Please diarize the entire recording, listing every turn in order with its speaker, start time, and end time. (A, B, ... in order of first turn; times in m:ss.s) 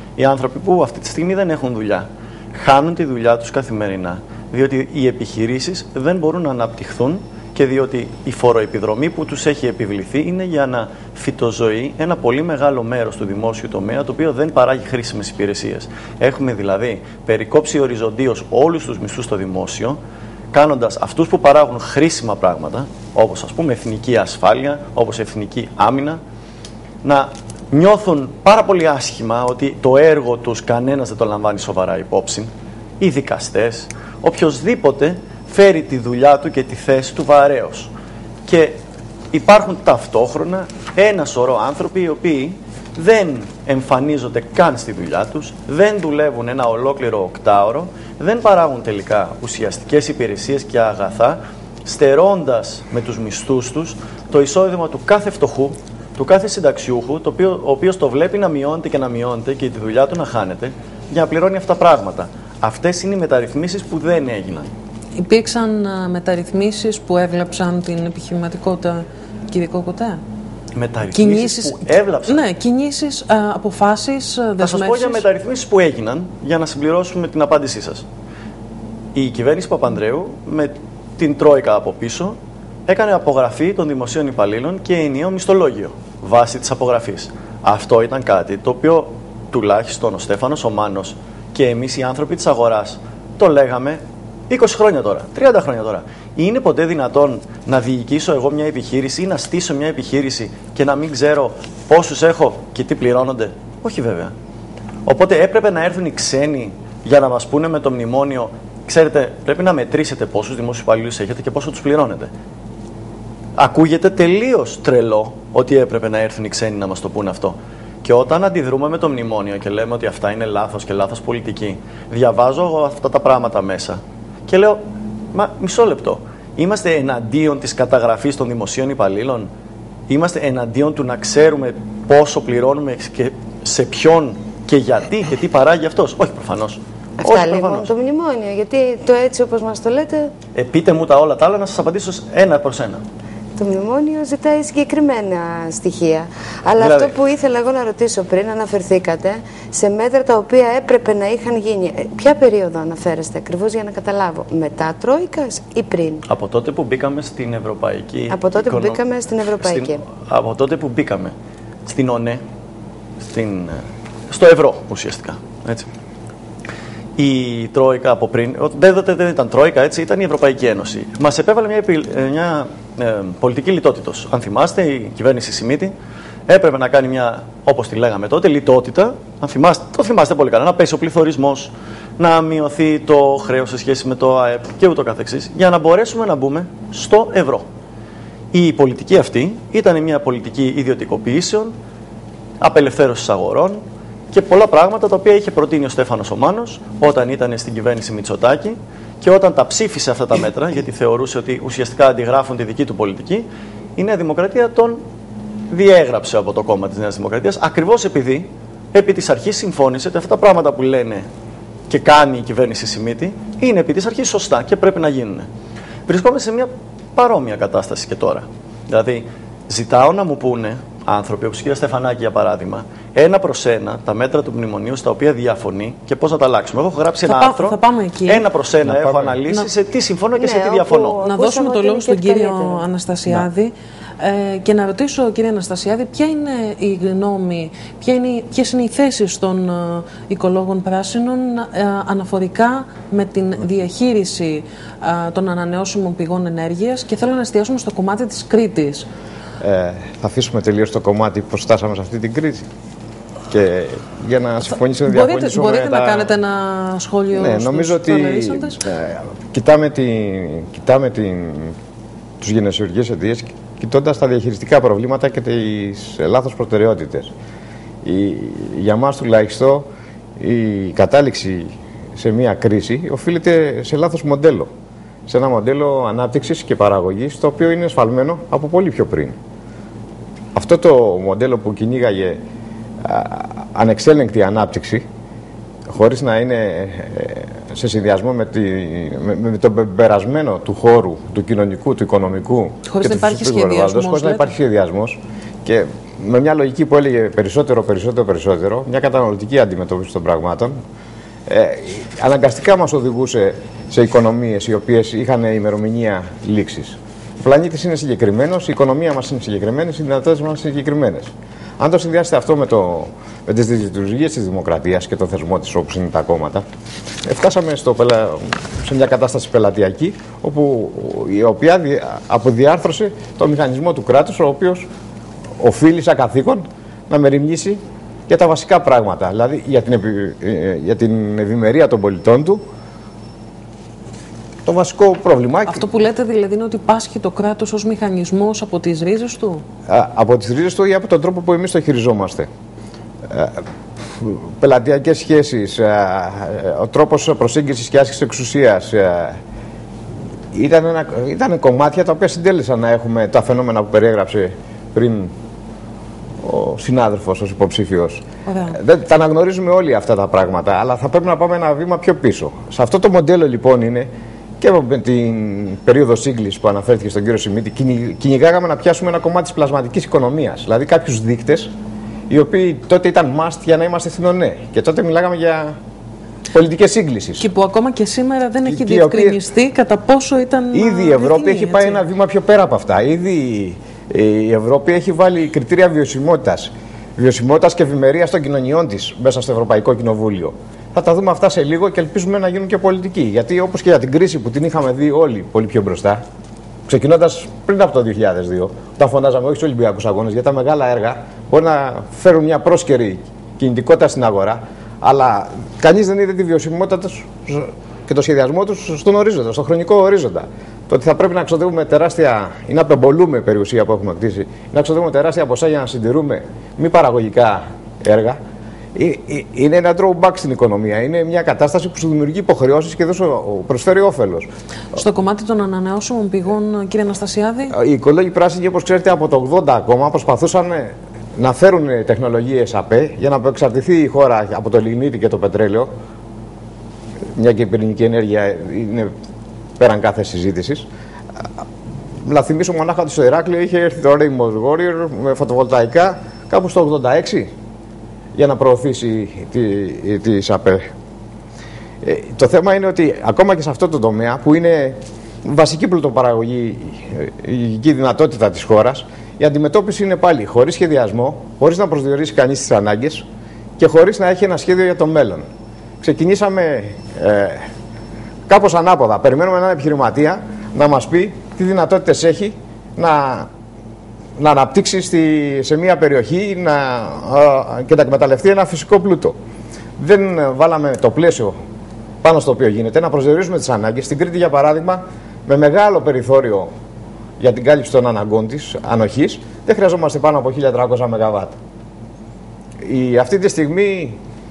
0:00.2-0:20.0 A
0:20.5-0:26.2 A
0:27.0-0:37.9 A
0:38.4-0:38.8 A
0:39.3-1:04.7 A
1:05.2-1:10.2 B
1:10.7-1:12.4 A
1:11.1-1:15.2 B
1:14.6-1:18.0 A
1:19.1-1:44.3 A
1:45.0-1:52.3 A
1:53.6-2:04.8 A
2:05.3-2:09.5 A
2:10.1-2:17.9 A
2:17.2-2:20.3 C
2:20.5-2:23.0 A
2:23.6-2:36.2 C
2:26.8-2:27.1 A
2:36.3-2:39.0 A
2:38.3-2:40.0 C
2:39.6-2:41.3 A
2:41.8-2:42.4 A
2:43.2-2:45.9 A
2:47.2-2:55.9 A
2:56.5-3:07.6 A
3:08.5-3:11.7 A
3:12.6-3:13.8 A
3:14.3-3:23.4 A
3:24.0-3:25.0 A
3:25.7-3:31.2 A
3:31.9-3:35.5 A
3:36.1-3:51.2 A
3:47.2-3:48.4 B
3:48.8-3:49.4 D
3:50.3-3:52.8 C
3:51.2-4:09.1 B
4:09.6-4:12.7 D
4:13.5-4:16.4 D
4:15.0-4:18.8 B
4:17.3-4:21.7 D
4:22.4-4:27.3 D
4:28.0-4:29.9 D
4:30.4-4:34.7 D
4:35.3-4:39.4 D
4:40.5-4:42.4 D
4:43.0-4:45.0 D
4:45.9-5:00.7 D
4:52.9-4:54.5 B
5:01.5-5:16.6 D
5:17.2-5:24.9 D
5:25.6-5:32.6 D
5:34.6-5:35.8 D
5:35.7-5:39.6 B
5:39.9-5:42.5 D
5:43.3-5:49.4 D
5:50.5-5:55.3 D
5:56.4-6:04.1 D
5:58.4-5:58.8 B
6:04.6-6:11.7 D
6:12.3-6:15.8 D
6:16.5-6:17.5 D
6:17.4-6:22.0 B
6:18.6-6:19.4 D
6:20.7-6:36.2 D
6:36.9-6:58.4 D
6:58.9-7:04.5 D
7:04.9-7:07.7 B
7:07.7-7:15.9 D
7:17.3-7:19.1 D
7:19.8-7:20.8 D
7:22.2-7:27.5 D
7:28.4-7:30.8 D
7:32.0-7:43.2 D
7:43.8-7:45.4 D
7:46.0-7:47.6 D
7:48.5-7:53.5 D
7:54.4-7:59.4 D
8:00.0-8:01.6 D
8:02.2-8:06.7 D
8:07.4-8:11.6 D
8:12.8-8:14.2 D